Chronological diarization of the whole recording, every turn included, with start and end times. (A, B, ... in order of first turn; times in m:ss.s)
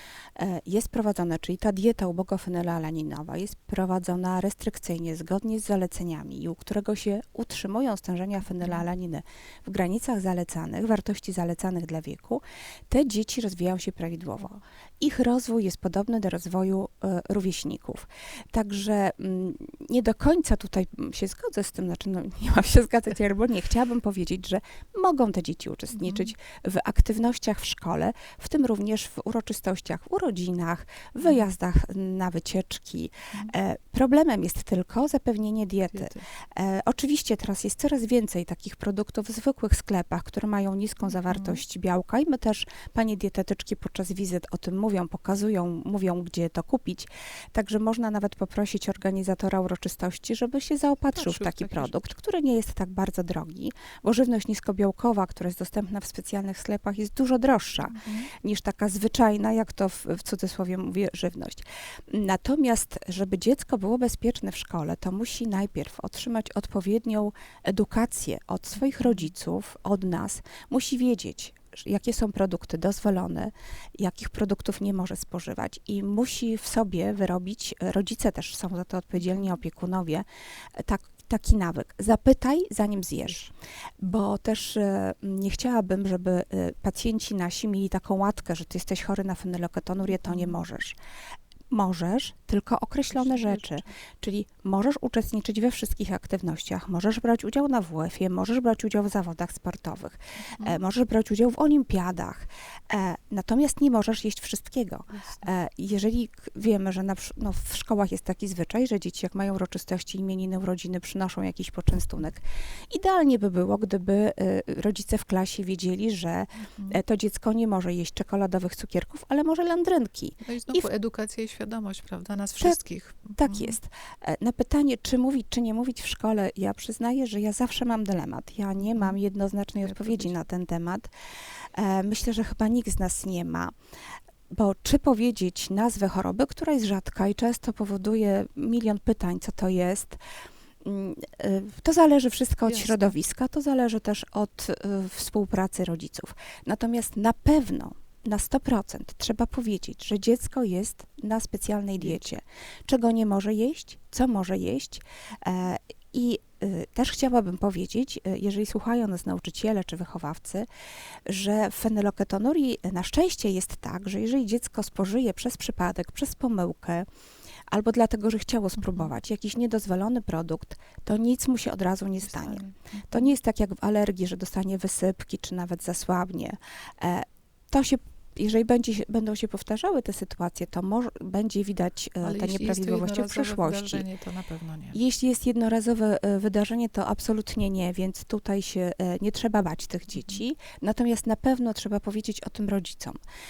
0:00.4-1:20.2 A
0:08.6-0:08.8 B
0:25.9-0:26.3 B
0:35.9-0:36.3 B
0:41.2-0:41.6 B
0:51.2-0:51.9 B
0:58.0-0:58.3 B
1:19.2-1:19.5 B
1:20.8-1:31.0 A
1:30.2-1:30.6 B
1:31.7-2:00.9 A
1:33.1-1:33.9 B
1:45.1-1:45.4 B
1:56.6-1:57.0 B
2:00.4-2:03.8 B
2:03.4-2:11.1 A
2:08.9-2:09.2 B
2:09.8-2:10.4 B
2:11.8-2:13.7 A
2:14.5-2:20.2 A
2:20.8-2:40.7 A
2:22.7-2:23.1 B
2:41.3-2:47.1 A
2:47.7-3:04.0 A
2:52.2-2:53.3 B
3:02.2-3:05.0 B
3:04.9-3:13.2 A
3:10.2-3:10.4 B